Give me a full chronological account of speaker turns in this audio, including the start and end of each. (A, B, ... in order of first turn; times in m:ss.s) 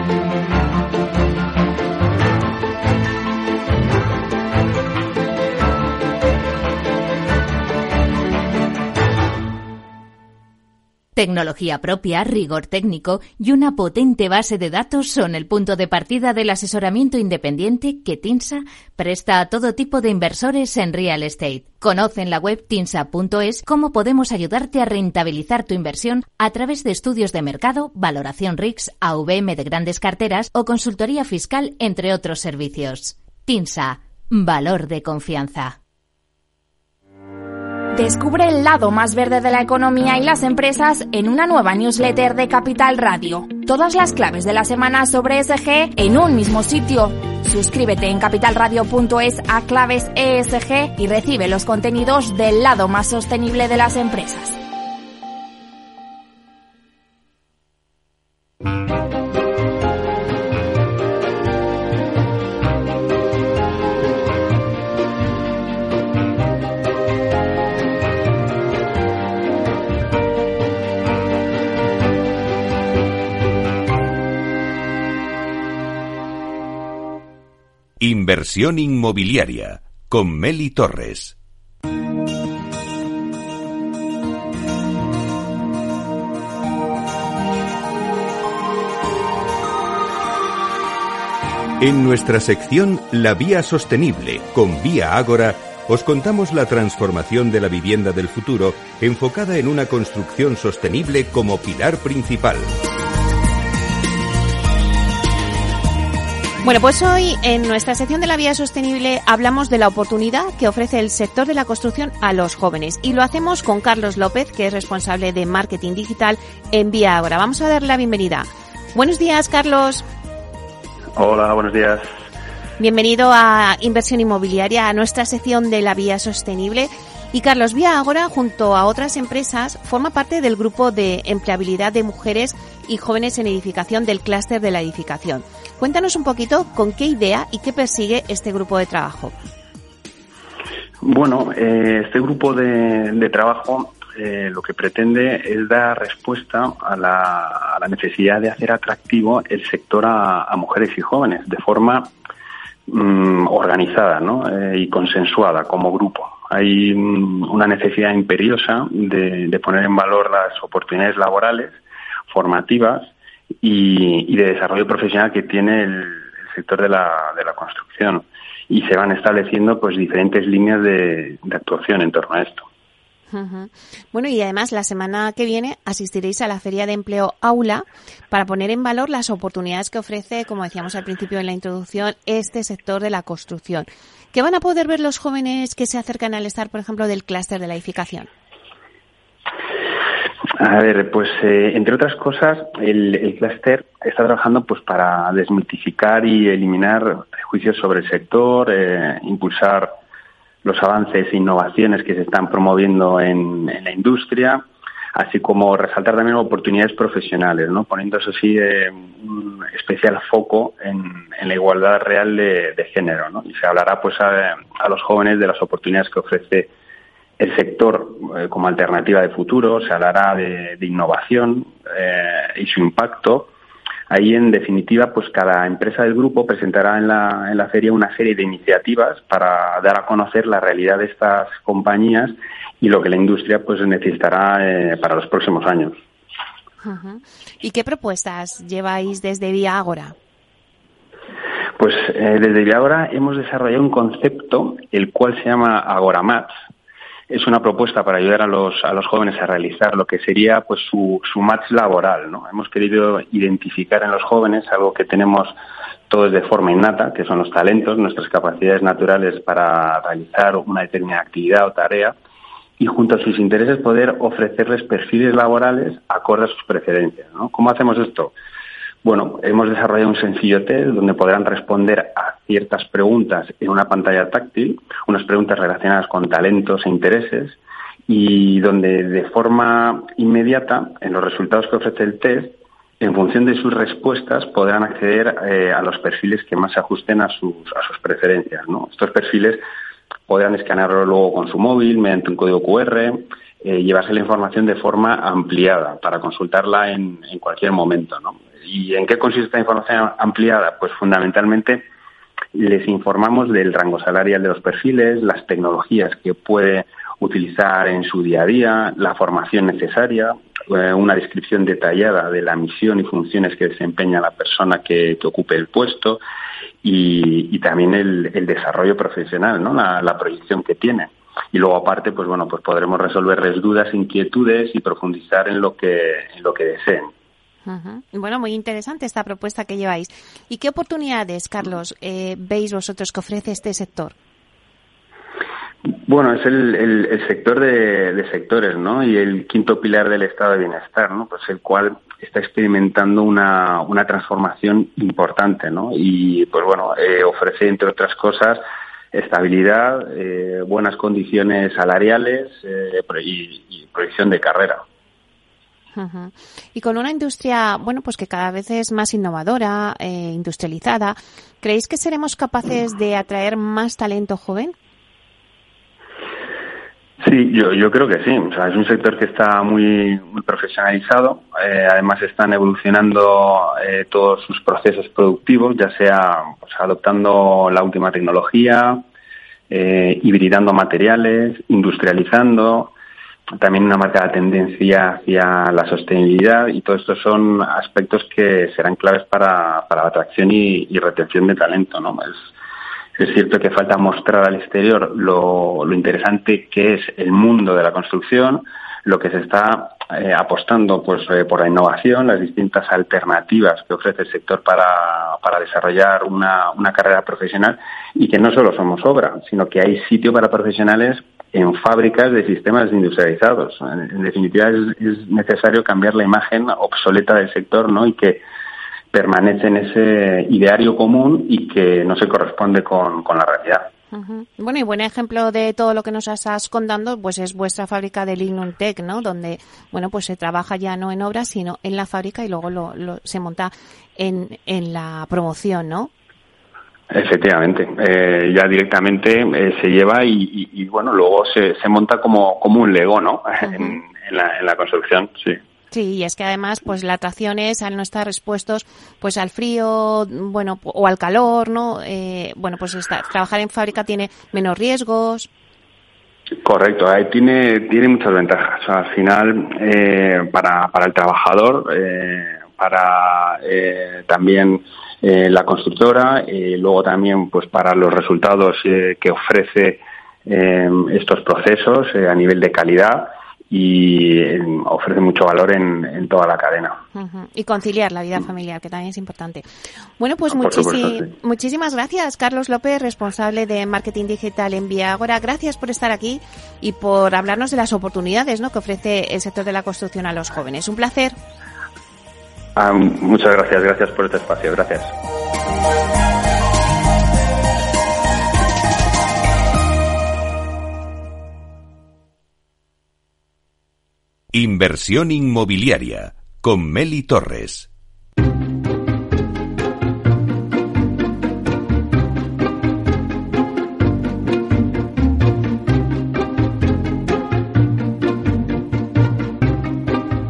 0:11.2-0:35.8 A
0:37.9-0:54.6 B
1:18.0-1:21.4 C
1:31.8-1:42.7 C
1:46.6-2:00.0 D
2:01.2-2:02.0 E
2:02.8-2:19.3 D
2:21.0-2:32.1 E
2:32.9-2:43.1 E
2:43.6-2:52.7 E
2:53.3-3:08.3 D
3:10.6-3:20.0 E
3:20.6-3:36.7 E
3:37.4-3:43.5 E
3:44.1-3:56.0 E
3:56.8-4:00.1 D
4:01.8-4:06.5 E
4:07.3-4:15.5 E
4:16.1-4:22.2 E
4:22.8-4:28.3 E
4:29.0-4:49.6 E
4:50.3-5:01.8 E
5:02.5-5:16.2 E
5:16.8-5:27.1 E
5:27.7-5:34.1 D
5:36.0-5:54.8 E
5:56.0-6:04.7 D
6:07.2-6:19.0 E
6:19.7-6:22.9 E
6:23.6-6:32.4 E
6:33.2-6:58.4 E
6:59.1-7:03.9 E
7:04.1-7:16.1 D
7:17.1-7:25.6 E
7:23.6-7:24.0 D
7:25.9-7:35.5 D
7:36.6-7:57.0 E
7:57.2-7:59.6 D
8:00.2-8:11.4 D
8:00.5-8:01.3 E
8:12.8-8:15.1 E
8:24.5-8:27.9 C